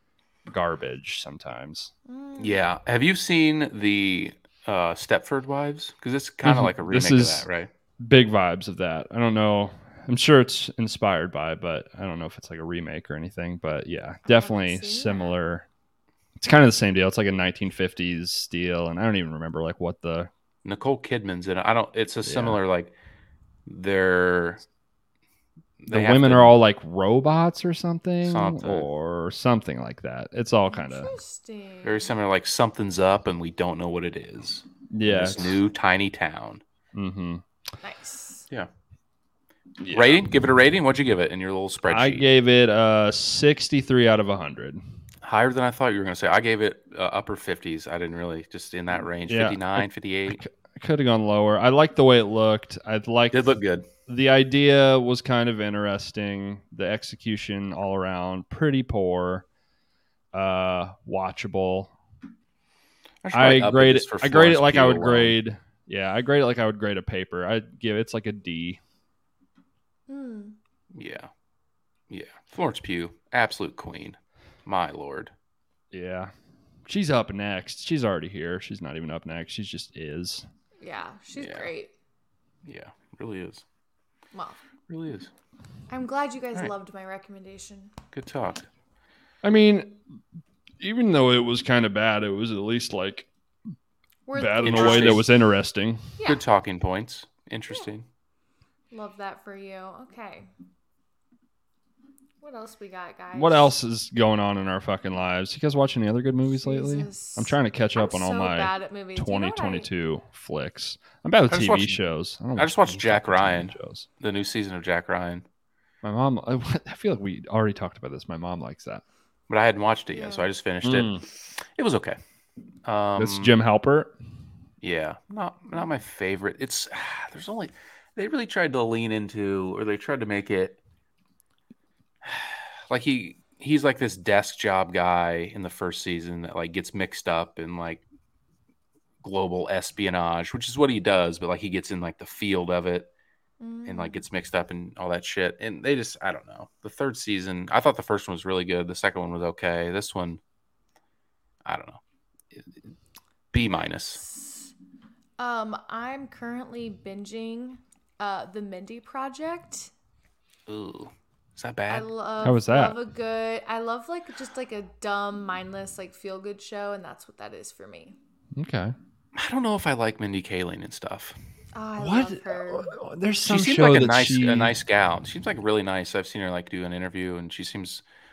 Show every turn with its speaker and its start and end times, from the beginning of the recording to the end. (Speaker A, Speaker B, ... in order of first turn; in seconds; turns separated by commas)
Speaker A: 0.5-1.9, Speaker B: 2.1-2.6, Speaker C: 2.4-7.7, Speaker A: 6.4-7.5, Speaker A: 8.0-15.6, Speaker B: 14.2-15.3, Speaker A: 16.4-20.3, Speaker C: 20.6-22.9, Speaker A: 22.2-22.6, Speaker C: 23.6-24.6, Speaker C: 25.8-26.5, Speaker A: 25.9-31.1, Speaker C: 28.2-28.9, Speaker B: 30.7-32.1, Speaker C: 31.8-36.6, Speaker A: 34.9-35.6, Speaker A: 36.9-37.4, Speaker B: 37.8-38.5, Speaker A: 39.8-40.2, Speaker C: 39.9-42.2, Speaker A: 41.9-44.8, Speaker C: 45.2-50.4, Speaker A: 49.3-53.5, Speaker C: 53.3-53.9, Speaker A: 54.1-59.4, Speaker A: 60.3-61.9, Speaker C: 63.2-65.4, Speaker A: 63.3-68.8, Speaker B: 70.1-70.5, Speaker C: 70.9-71.3, Speaker C: 72.1-75.3, Speaker A: 75.9-76.3, Speaker A: 76.9-80.5, Speaker B: 80.8-81.9, Speaker C: 81.3-81.7, Speaker C: 82.6-83.6, Speaker B: 84.3-84.6, Speaker C: 84.9-85.3, Speaker B: 85.9-87.9, Speaker C: 88.1-88.7, Speaker A: 89.4-90.0, Speaker A: 90.8-93.3, Speaker B: 94.3-95.2, Speaker A: 94.3-96.1, Speaker C: 94.6-95.2, Speaker B: 96.2-96.4, Speaker C: 96.2-98.0, Speaker B: 98.9-100.5, Speaker B: 102.4-103.7, Speaker A: 103.3-114.0, Speaker B: 106.6-109.9, Speaker C: 111.5-112.0, Speaker C: 112.5-115.4, Speaker A: 116.0-119.0, Speaker C: 119.5-122.2, Speaker B: 120.1-120.5, Speaker A: 120.8-121.2, Speaker C: 122.8-123.5, Speaker A: 123.2-124.1, Speaker C: 124.8-130.8, Speaker C: 132.2-138.0, Speaker C: 139.2-143.1, Speaker B: 143.6-144.2, Speaker C: 143.8-150.4, Speaker C: 151.6-152.0, Speaker C: 152.5-152.8, Speaker C: 153.5-154.2, Speaker B: 154.1-154.7, Speaker B: 155.4-159.9, Speaker C: 160.7-162.1, Speaker B: 161.9-168.2, Speaker A: 162.4-163.0, Speaker A: 168.6-168.9, Speaker C: 169.3-171.3, Speaker B: 171.7-172.9, Speaker A: 172.0-174.7, Speaker C: 173.4-178.0